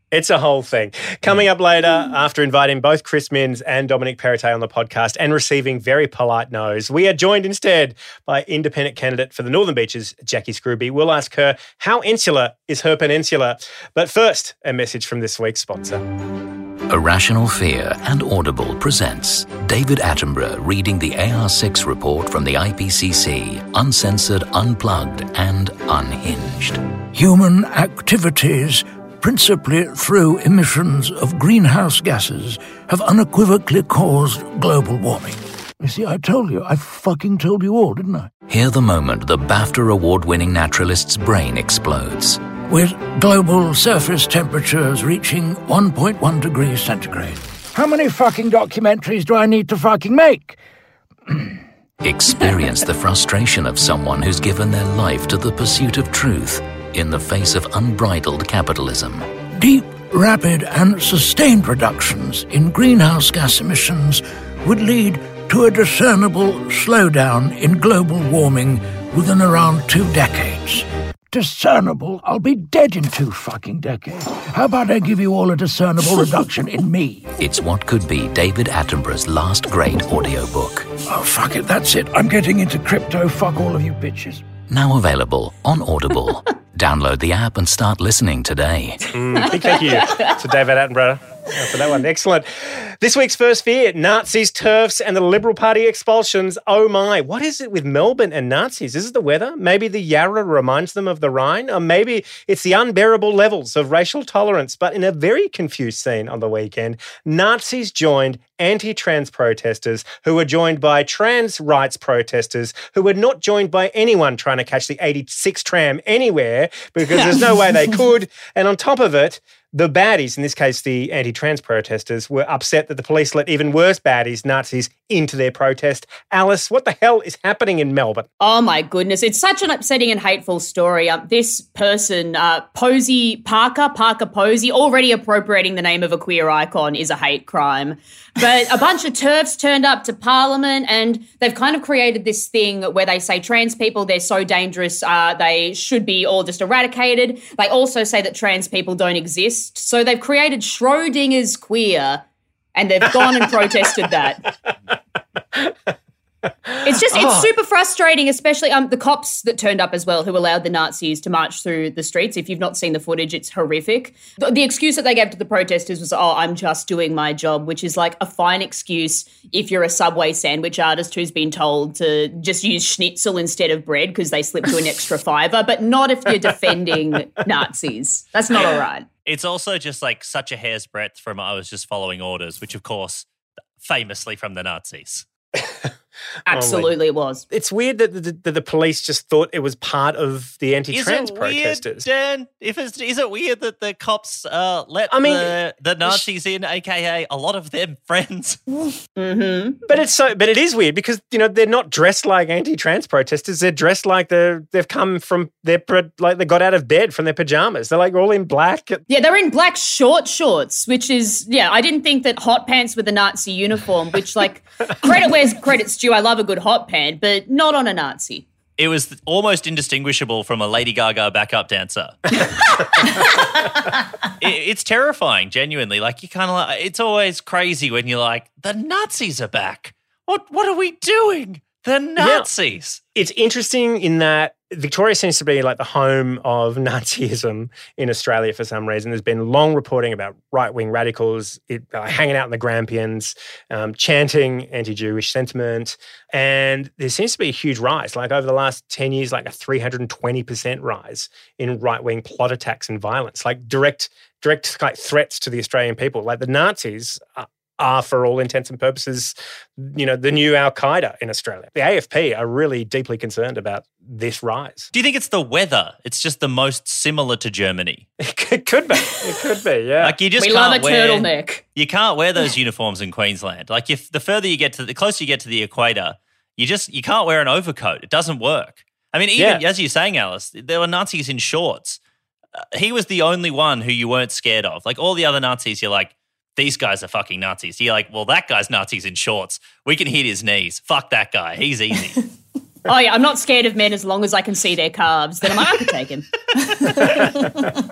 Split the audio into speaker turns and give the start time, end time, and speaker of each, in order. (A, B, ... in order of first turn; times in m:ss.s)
0:00.1-0:16.0 A
0:16.9-0:26.8 B
0:27.1-0:38.3 C
0:38.5-0:42.4 B
0:42.7-0:50.6 C
0:52.0-0:59.3 B
0:59.6-1:17.3 C
1:17.4-1:20.9 B
1:21.1-1:24.4 C
1:24.7-1:29.0 B
1:29.1-2:08.3 A
1:29.6-1:30.3 D
2:08.4-2:32.2 D
2:32.7-2:34.4 D
2:36.8-2:37.5 A
2:36.8-2:59.0 D
2:58.5-3:03.3 E
3:03.8-3:05.3 E
3:06.5-3:07.4 D
3:06.5-3:06.9 A
3:07.5-3:12.0 A
3:10.9-3:18.6 E
3:15.1-3:16.2 A
3:19.2-3:19.8 D
3:19.9-3:29.0 A
3:29.1-3:38.5 D
3:38.8-3:42.3 E
3:44.4-3:53.0 E
3:52.2-3:52.5 A
3:53.1-4:24.9 A
4:24.9-4:28.1 E
4:28.2-4:30.2 A
4:30.0-4:42.0 E
4:30.4-4:31.6 D
4:39.4-4:39.6 A
4:42.7-4:52.3 E
4:52.8-4:56.2 D